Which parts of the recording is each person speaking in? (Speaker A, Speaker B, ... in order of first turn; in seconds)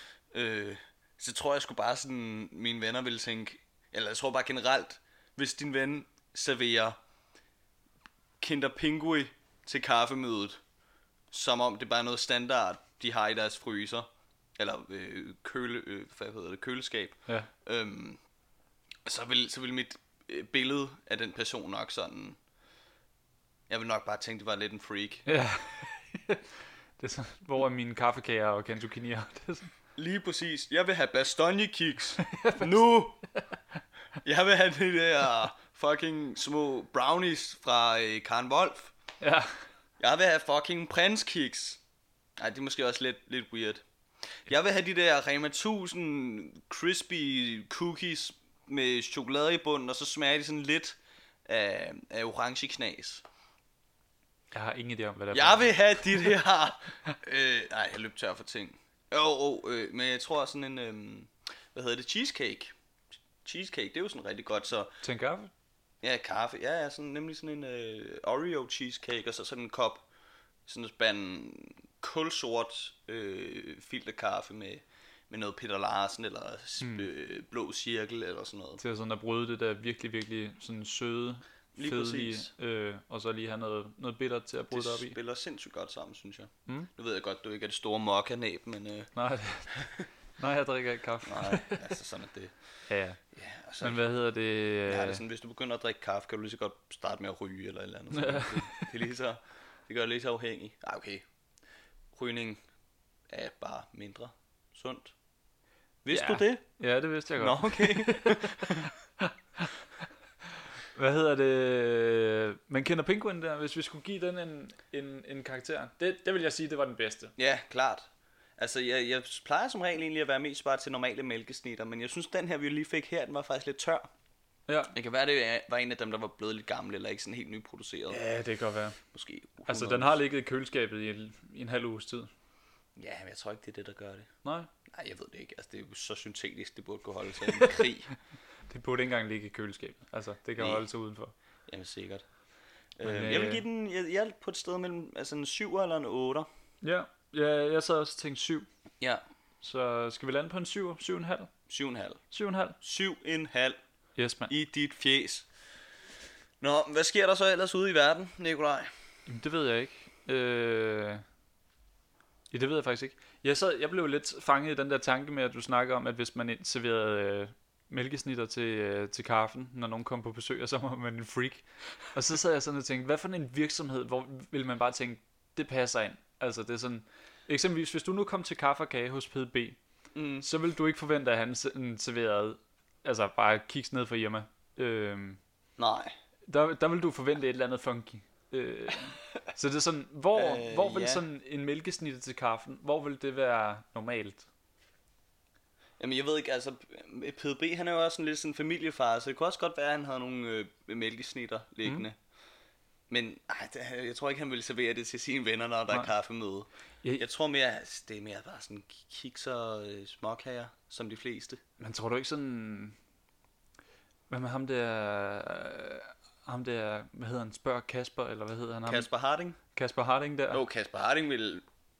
Speaker A: 0.3-7.0, 8.4-10.6, 11.3-14.1, 14.6-18.2, 19.1-22.4, 23.7-25.3, 30.0-33.2, 34.2-38.9, 40.0-41.8, 42.4-53.2, 55.3-62.7, 63.4-65.0, 66.0-70.1, 70.7-78.8, 81.8-82.5, 84.7-89.1, 89.7-90.1, 91.3-94.0, 94.9-101.2, 102.1-102.6, 103.3-105.2, 106.0-106.9, 107.4-108.9, 117.4-124.1, 124.9-128.2, 129.1-130.2, 133.0-134.3, 134.9-138.1, 140.6-140.8, 141.7-142.3, 143.0-146.5, 151.7-152.2, 152.8-153.8, 154.5-155.5, 156.6-158.9, 180.2-180.4, 185.8-186.1, 190.3-191.2, 196.0-202.2, 203.1-211.6, 218.9-219.6, 220.5-221.7
Speaker B: 25.3-26.5, 27.0-29.7, 32.2-32.8, 39.2-39.7, 54.5-56.4, 65.0-65.5, 76.8-77.1, 78.8-85.2, 89.2-91.8, 92.9-93.2, 93.8-95.2, 98.1-98.9, 106.1-109.8, 110.9-117.3, 124.7-124.9, 128.1-129.0, 129.7-132.3, 134.4-134.7, 138.7-141.3, 143.0-143.6, 146.8-148.7, 149.6-151.5, 152.3-152.8, 154.2-154.5, 159.3-161.2, 162.5-179.8, 180.4-185.4, 186.5-194.5, 211.8-213.0, 214.3-219.1, 219.7-220.6